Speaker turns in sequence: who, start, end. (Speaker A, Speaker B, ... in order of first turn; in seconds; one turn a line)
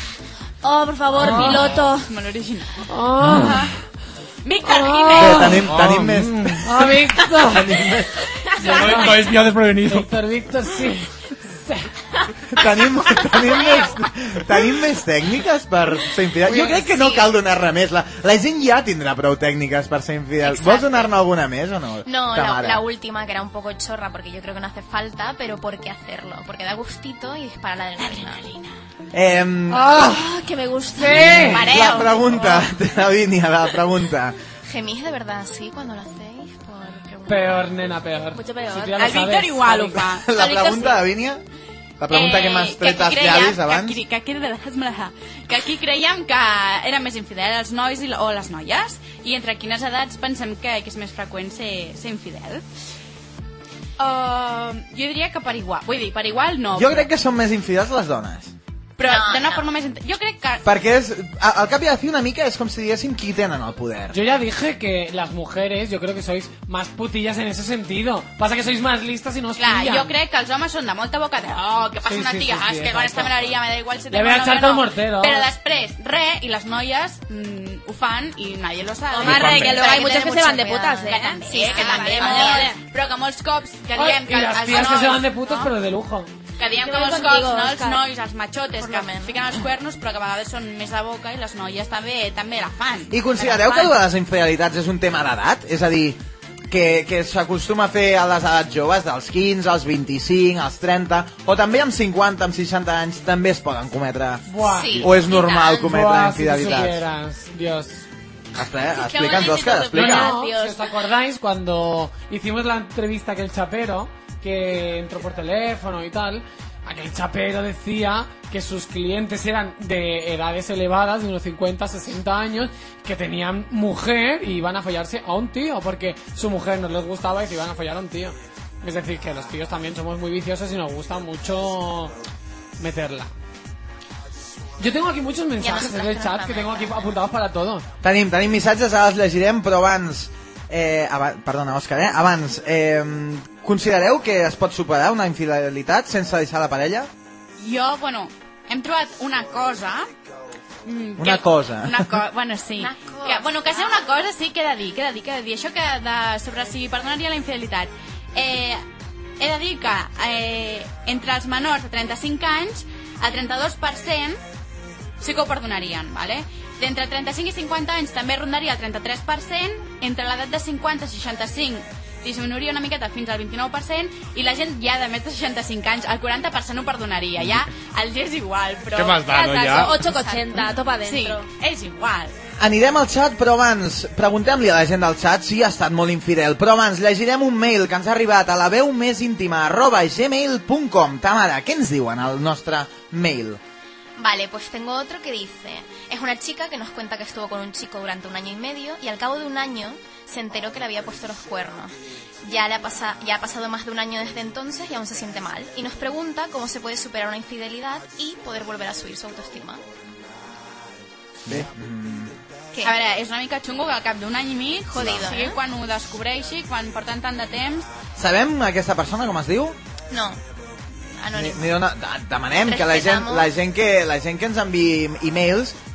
Speaker A: 0.6-2.1
Speaker B: 1.2-2.9
Speaker C: 1.2-1.7
Speaker C: 2.9-3.8
Speaker B: 4.4-5.6
Speaker C: 4.6-5.7
Speaker D: 5.2-6.6
Speaker E: 5.6-10.1
Speaker C: 6.6-7.8
Speaker C: 8.6-11.9
Speaker D: 12.5-22.8
Speaker F: 16.4-17.3
Speaker F: 20.4-21.1
Speaker F: 22.1-28.5
Speaker B: 28.0-28.7
Speaker D: 29.1-30.2
Speaker C: 29.7-30.3
Speaker A: 29.9-31.8
Speaker C: 31.0-31.6
Speaker D: 31.1-34.4
Speaker F: 31.6-32.6
Speaker F: 34.6-37.9
Speaker C: 37.3-40.0
Speaker A: 38.3-39.2
Speaker B: 39.0-40.3
Speaker D: 40.0-41.4
Speaker A: 40.4-41.0
Speaker D: 42.0-44.0
Speaker B: 42.1-52.6
Speaker B: 54.0-57.1
Speaker D: 56.7-58.5
Speaker B: 59.0-60.7
Speaker F: 59.0-59.7
Speaker D: 60.6-64.2
Speaker C: 64.1-70.1
Speaker B: 69.6-80.5
Speaker C: 72.1-73.4
Speaker C: 74.1-75.5
Speaker A: 79.1-82.8
Speaker E: 79.2-79.8
Speaker F: 79.7-82.7
Speaker B: 81.0-85.7
Speaker C: 83.9-86.3
Speaker B: 86.6-94.0
Speaker A: 86.7-88.0
Speaker F: 88.8-89.6
Speaker D: 93.1-96.2
Speaker D: 96.7-104.5
Speaker C: 104.5-105.1
Speaker F: 104.6-105.9
Speaker D: 105.0-107.0
Speaker C: 105.8-108.0
Speaker D: 108.5-110.3
Speaker A: 109.0-110.9
Speaker C: 109.9-132.1
Speaker C: 132.8-133.3
Speaker C: 134.8-137.9
Speaker F: 135.6-137.1
Speaker D: 138.0-147.1
Speaker B: 147.6-150.1
Speaker B: 150.8-158.8
Speaker D: 151.2-152.1
Speaker F: 152.8-154.1
Speaker B: 159.4-164.4
Speaker B: 165.2-179.3
Speaker E: 178.9-180.0
Speaker A: 179.2-181.5
Speaker B: 180.0-182.3
Speaker D: 182.6-193.6
Speaker F: 194.2-209.8
Speaker D: 211.5-212.3
Speaker B: 212.8-217.9
Speaker F: 214.9-215.6
Speaker D: 214.9-215.3
Speaker D: 218.2-219.8
Speaker F: 220.1-220.4
Speaker F: 221.2-221.6
Speaker D: 221.3-225.8
Speaker F: 222.6-223.5